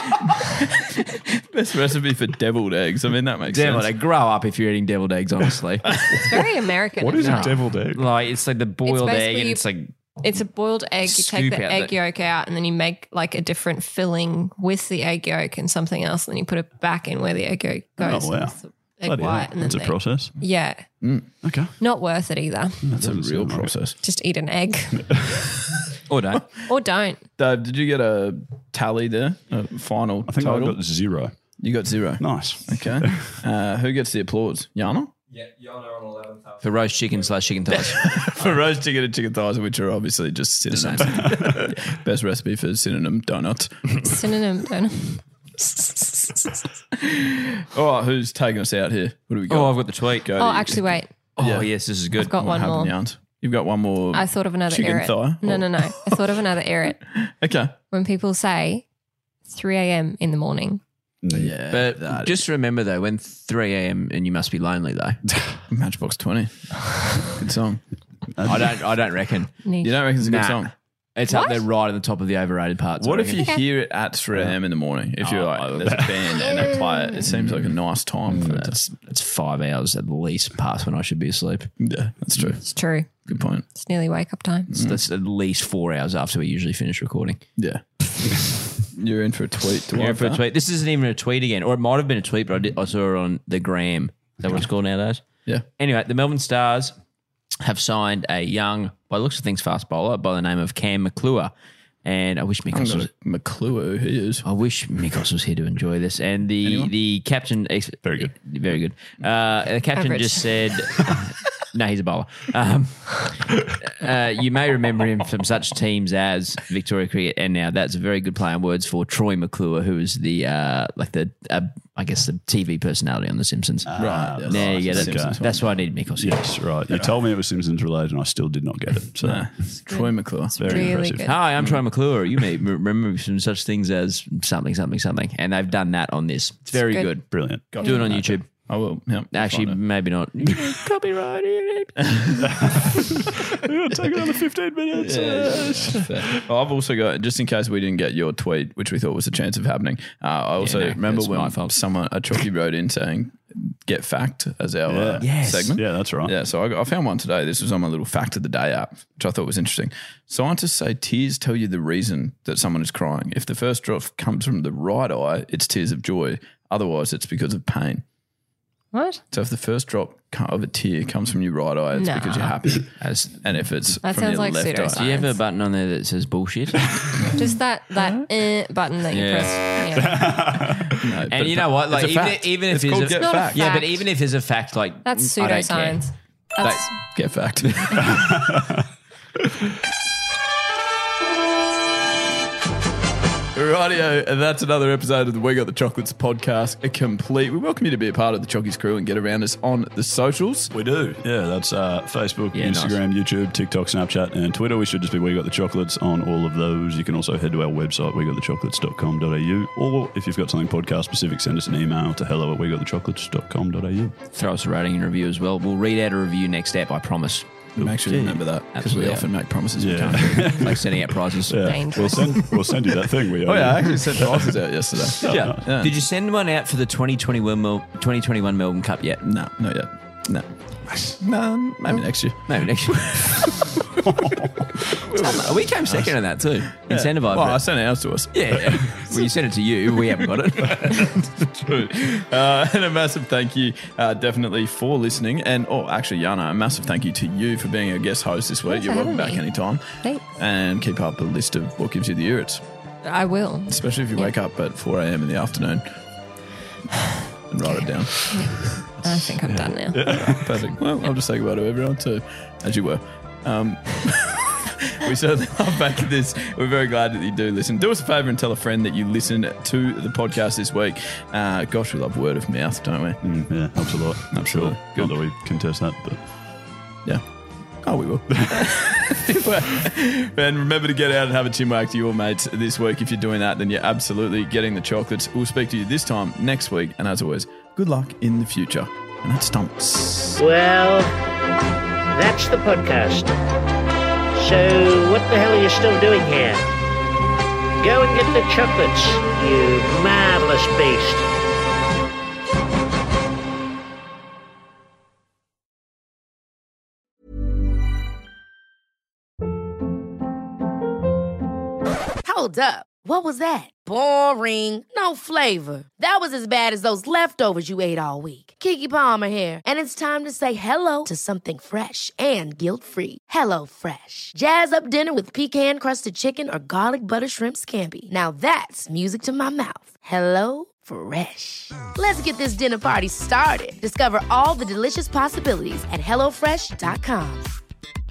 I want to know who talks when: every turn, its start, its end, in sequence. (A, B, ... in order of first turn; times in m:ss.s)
0:00.8-0:03.9 A
0:03.5-0:05.9 B
0:05.9-0:06.3 A
0:06.2-0:07.6 C
0:07.0-0:08.0 D
0:07.2-0:09.9 B
0:08.8-0:09.6 C
0:10.2-0:20.8 C
0:11.0-0:11.9 B
0:18.0-0:20.3 D
0:21.0-0:21.3 A
0:21.4-0:21.7 D
0:21.8-0:22.8 C
0:22.8-0:23.7 D
0:22.9-0:24.0 A
0:24.0-0:25.1 C
0:26.1-0:26.5 B
0:26.6-0:27.2 C
0:27.4-0:30.8 A
0:30.3-0:31.5 D
0:31.6-0:35.1 A
0:32.2-0:33.4 D
0:36.6-0:38.5 B
0:37.7-0:44.1 A
0:40.7-0:41.7 B
0:44.0-0:46.5 C
0:46.9-0:56.2 A
0:49.5-0:50.3 B
0:50.4-0:51.1 C
0:51.4-0:52.3 B
0:52.3-0:53.0 C
0:54.1-0:57.0 C
0:57.1-0:57.7 A
0:57.9-0:58.8 C
0:59.5-1:00.8 C
1:01.2-1:01.5 D
1:01.3-1:02.4 A
1:01.7-1:05.2 B
1:05.7-1:07.8 A
1:08.4-1:08.8 D
1:08.4-1:09.5 B
1:09.6-1:10.0 C
1:09.8-1:10.7 A
1:10.2-1:13.5 B
1:11.3-1:11.6 C
1:13.0-1:18.7 A
1:15.2-1:16.1 B
1:18.3-1:18.7 D
1:18.3-1:21.7 B
1:21.8-1:22.6 A
1:22.6-1:23.1 C
1:23.3-1:23.6 A
1:23.7-1:24.7 C
1:24.7-1:25.0 A
1:24.7-1:27.4 B
1:27.6-1:27.8 A
1:28.9-1:30.4 A
1:29.9-1:35.2 B
1:35.8-1:37.0 B
1:37.6-1:41.5 B
1:42.0-1:43.1 B
1:42.7-1:44.4 A
1:44.4-2:06.5 B
1:46.6-1:46.9 A
1:48.0-1:48.3 D
1:49.9-1:50.5 C
2:03.8-2:09.7 D
2:04.0-2:05.6 A
2:09.2-2:10.9 A
2:09.9-2:11.4 C
2:10.5-2:11.3 D
2:11.2-2:17.3 B
2:11.6-2:11.8 A
2:17.3-2:18.4 D
2:17.7-2:19.8 A
2:17.8-2:18.5 B
2:19.3-2:22.4 B
2:22.1-2:22.4 A
2:22.6-2:26.4 D
2:24.9-2:48.0 A
2:30.6-2:31.8 B
2:34.9-2:36.3 D
2:35.2-2:35.8 B
2:48.9-2:49.2 C
2:49.3-2:55.1 A
2:51.9-2:52.5 C
2:53.0-2:53.6 B
2:54.0-2:55.3 C
2:55.0-2:57.2 B
2:57.3-3:00.2 C
2:59.1-3:00.2 B
2:59.9-3:01.1 D
3:00.9-3:03.7 A
3:01.3-3:06.0 B
3:03.1-3:04.0 C
3:05.0-3:06.9 C
3:06.6-3:06.9 B
3:07.1-3:08.4 A
3:08.1-3:08.6 D
3:13.5-3:20.7 A
3:20.7-3:34.2 D
3:22.5-3:23.0 B
3:34.3-3:37.5 B
3:37.8-3:40.7 A
3:37.8-3:38.4 D
3:38.7-3:41.8 B
3:39.8-3:44.6 D
3:41.6-3:42.5 C
3:43.4-3:46.0 A
3:45.2-3:49.2 B
3:49.2-3:50.5 A
3:51.0-3:53.8 A
3:52.5-3:53.6 B
3:55.0-3:59.2 A
3:55.0-3:57.7 B
3:58.3-4:01.2 B
4:00.2-4:12.6 A
4:08.7-4:09.4 C
4:13.0-4:14.3 C
4:13.7-4:15.9 A
4:17.5-4:18.7 A
4:17.8-4:20.0 C
4:19.0-4:20.7 D
4:20.1-4:33.3 A
4:33.2-4:36.2 D
4:34.3-4:35.2 A
4:37.8-4:50.4 A
4:50.4-4:51.1 E
4:52.1-4:53.3 E
4:54.3-4:56.7 E
4:57.8-5:01.2 E
5:12.2-5:37.5 F